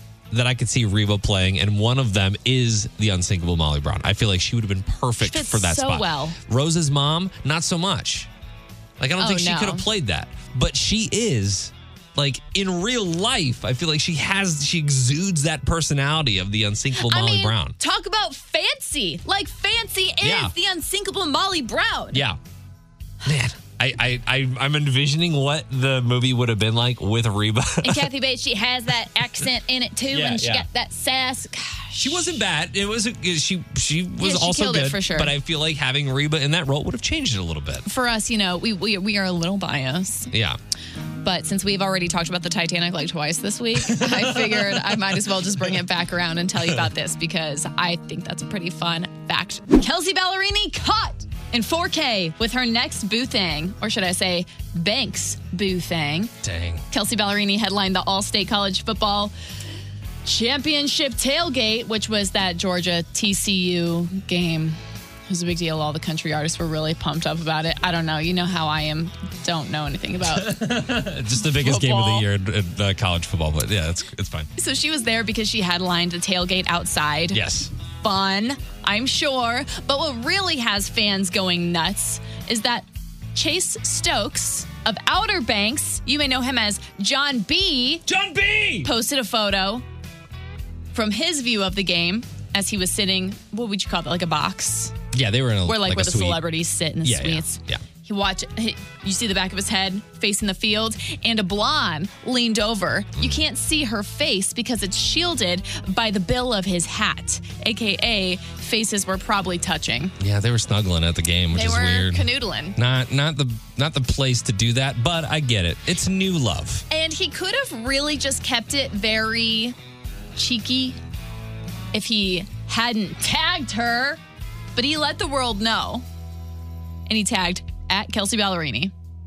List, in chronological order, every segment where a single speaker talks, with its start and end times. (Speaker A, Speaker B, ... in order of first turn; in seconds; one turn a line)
Speaker A: 0.3-8.3
Speaker B: 5.2-6.4
Speaker A: 9.0-17.8
Speaker B: 9.2-9.8
Speaker B: 17.0-22.2
Speaker A: 20.2-20.5
Speaker A: 22.1-22.4
Speaker A: 23.2-28.1
Speaker B: 27.8-32.4
Speaker A: 30.1-30.6
Speaker A: 32.0-37.9
Speaker B: 34.2-35.3
Speaker B: 37.8-40.3
Speaker A: 40.3-40.6
Speaker B: 41.2-56.3
Speaker A: 43.9-44.9
Speaker A: 56.4-56.8
Speaker B: 56.9-59.3
Speaker B: 60.2-70.6
Speaker A: 70.2-74.5
Speaker B: 71.4-72.2
Speaker B: 74.5-77.4
Speaker A: 77.3-77.7
Speaker B: 78.0-88.0
Speaker A: 88.1-88.9
Speaker B: 88.8-89.8
Speaker B: 90.9-94.9
Speaker A: 95.1-96.4
Speaker B: 95.7-110.1
Speaker A: 97.0-97.8
Speaker A: 110.2-112.2
Speaker B: 111.5-112.8
Speaker A: 112.8-116.8
Speaker B: 116.9-119.8
Speaker B: 120.3-121.0
Speaker B: 121.9-124.2
Speaker B: 124.8-126.0
Speaker B: 127.1-128.9